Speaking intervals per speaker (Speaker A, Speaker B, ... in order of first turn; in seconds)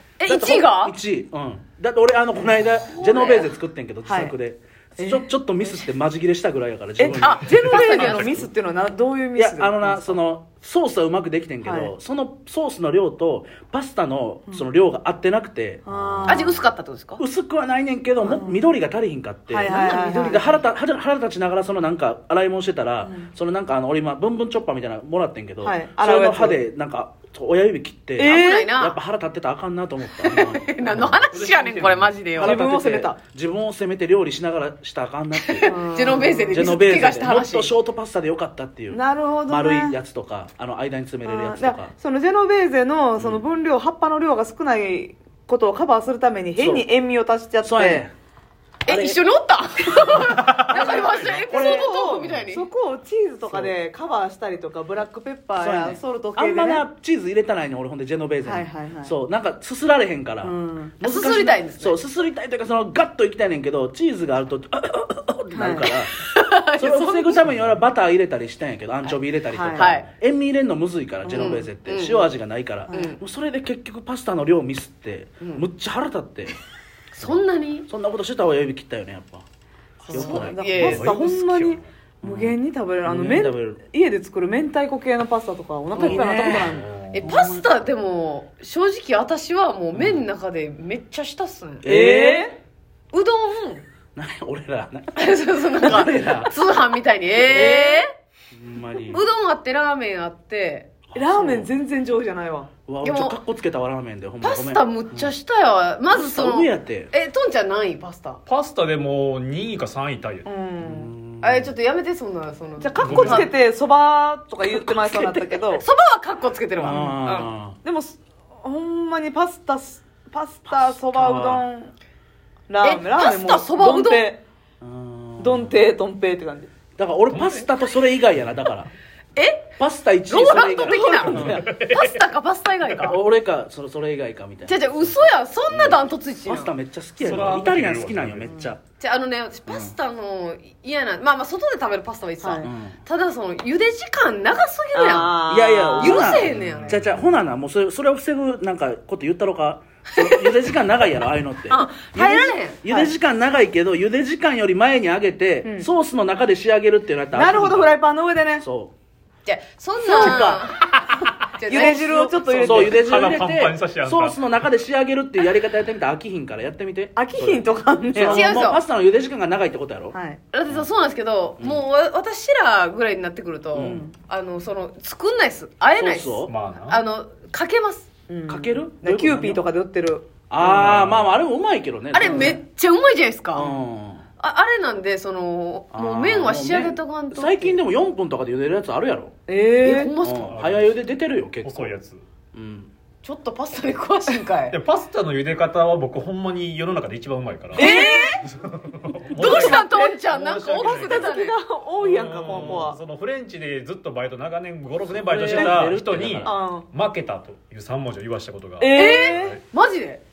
Speaker A: 0.2-1.0, 2.9-3.5, 7.2-8.4, 16.3-17.2, 28.2-29.0, 30.2-32.6, 35.5-37.7, 48.9-52.7, 61.0-62.0, 66.3-67.5, 69.8-70.1, 71.3-72.3, 72.9-73.2, 75.4-75.7, 77.1-77.9, 80.1-81.1, 86.0-86.6, 87.1-91.9, 93.1-93.8, 95.2-98.1, 99.1-100.9, 103.0-103.4, 104.4-108.4, 111.4-113.5, 114.6-117.0, 122.8-124.3, 129.4-129.7, 130.3-133.2, 134.7-136.7, 139.0-145.4, 146.0-147.1, 150.1-150.6, 151.7-152.8, 159.4-161.0, 161.6-162.9, 168.2-168.8, 170.5-178.1, 182.1-183.8, 184.4-187.8, 189.8-190.5, 193.2-194.8, 197.8-198.4, 199.3-201.6, 208.9-210.2
Speaker B: 0.3-8.5, 9.4-16.5, 17.2-31.2, 32.3-35.8, 36.5-41.9, 43.2-43.4, 46.6-46.9, 47.6-48.1, 48.9-49.2, 50.3-51.9, 53.5-53.7, 55.6-66.2, 66.8-76.6, 77.2-79.5, 80.1-80.6, 82.2-83.8, 85.9-87.7, 89.9-90.2, 91.8-92.5, 94.2-96.6, 97.5-97.9, 98.5-99.2, 101.2-101.7, 102.9-105.3, 106.1-107.1, 110.8-111.7, 116.8-117.8, 120.7-121.7, 124.8-125.8, 127.0-128.9, 129.8-131.6, 132.9-138.8, 139.7-140.0, 142.6-143.0, 145.5-158.0, 158.6-158.9, 161.7-167.6, 168.2-170.2, 171.6-171.8, 173.8-174.1, 175.9-176.6, 178.5-179.6, 180.5-182.6, 183.6-184.2, 185.9-189.3, 190.2-191.9, 192.5-192.9, 202.5-202.8, 205.1-206.5
Speaker C: 4.0-4.4, 5.0-5.6, 7.0-10.2, 11.6-11.9, 15.8-16.6, 18.2-18.6, 19.5-20.6, 23.0-23.3, 25.6-26.6, 28.2-28.7, 32.4-33.2, 35.7-36.8, 38.9-40.0, 41.2-48.1, 50.6-56.9, 58.4-59.2, 60.4-61.0, 65.5-65.9, 69.5-69.9, 71.2-71.6, 72.9-73.2, 80.1-86.9, 91.8-92.6, 97.5-98.0, 101.2-102.7, 110.5-111.0, 112.8-115.9, 116.8-121.9, 122.7-124.4, 125.4-126.7, 130.7-131.7, 142.4-142.7, 144.9-146.5, 152.9-153.1, 155.6-155.9, 157.3-158.7, 160.0-160.7, 161.7-163.2, 167.2-168.5, 170.1-170.4, 173.8-174.1, 178.3-181.0, 182.2-182.6, 189.5-190.1, 197.8-198.4, 199.4-200.2, 200.8-203.0, 205.3-205.9, 206.4-206.9, 208.8-209.6
Speaker D: 30.9-32.2, 67.5-67.8, 80.1-81.9, 86.0-87.3, 108.5-110.5, 113.0-113.5, 127.3-127.7, 131.4-132.2, 137.2-138.6, 146.4-147.3, 162.7-164.4, 176.4-177.0, 180.8-181.3, 190.3-191.0, 191.6-192.2, 194.7-201.4, 202.0-209.6